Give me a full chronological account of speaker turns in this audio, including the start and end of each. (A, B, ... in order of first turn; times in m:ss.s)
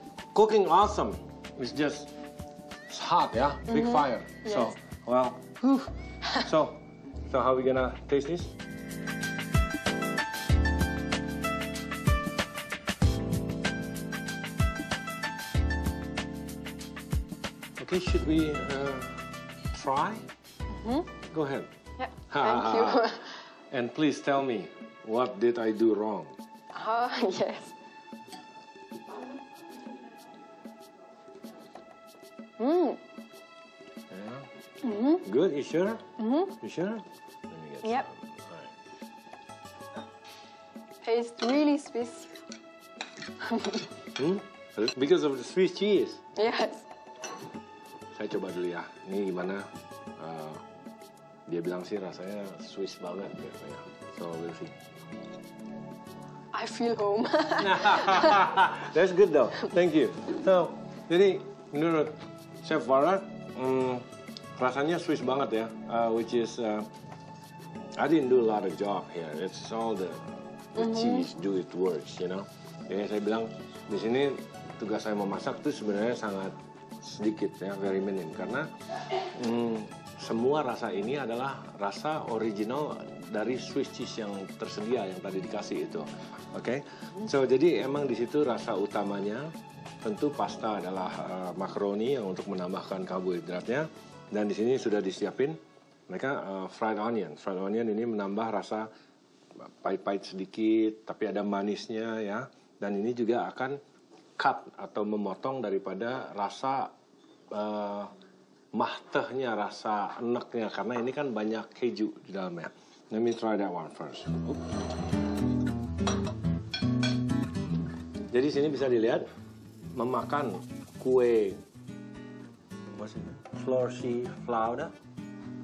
0:00.3-0:02.1 A
0:02.9-0:05.9 A
0:03.7-0:04.7 B
0:06.4-0:08.5 A
0:17.8-0:20.2 A
0:20.7-0:21.1 B
0:21.3-0:21.7 A
0:22.0-0:23.2 B
0:22.3-0:23.2 A
0:23.7-0:26.3 A
0:26.7-0:27.7 B
0:32.6-0:33.0 B
0:34.1-0:34.5 A
0:34.8-0:35.2 B
0:35.2-0:36.0 A
0:36.2-0:36.5 B
0:36.6-0:38.7 A
0:41.0-0:42.3 B
0:43.4-0:43.8 B
0:44.2-0:46.2 A
0:46.4-0:46.8 B
0:48.1-0:50.6 A
0:51.5-0:54.7 A
0:56.5-0:58.5 B
0:57.6-1:04.0 A
1:04.6-1:06.9 A
1:08.0-1:18.7 A
1:19.2-1:38.9 A
1:39.6-1:43.8 A
1:44.4-1:46.9 A
1:47.5-1:48.1 A
1:48.7-1:54.6 A
1:58.3-1:59.3 A
1:59.9-2:01.6 A
2:02.9-2:04.9 A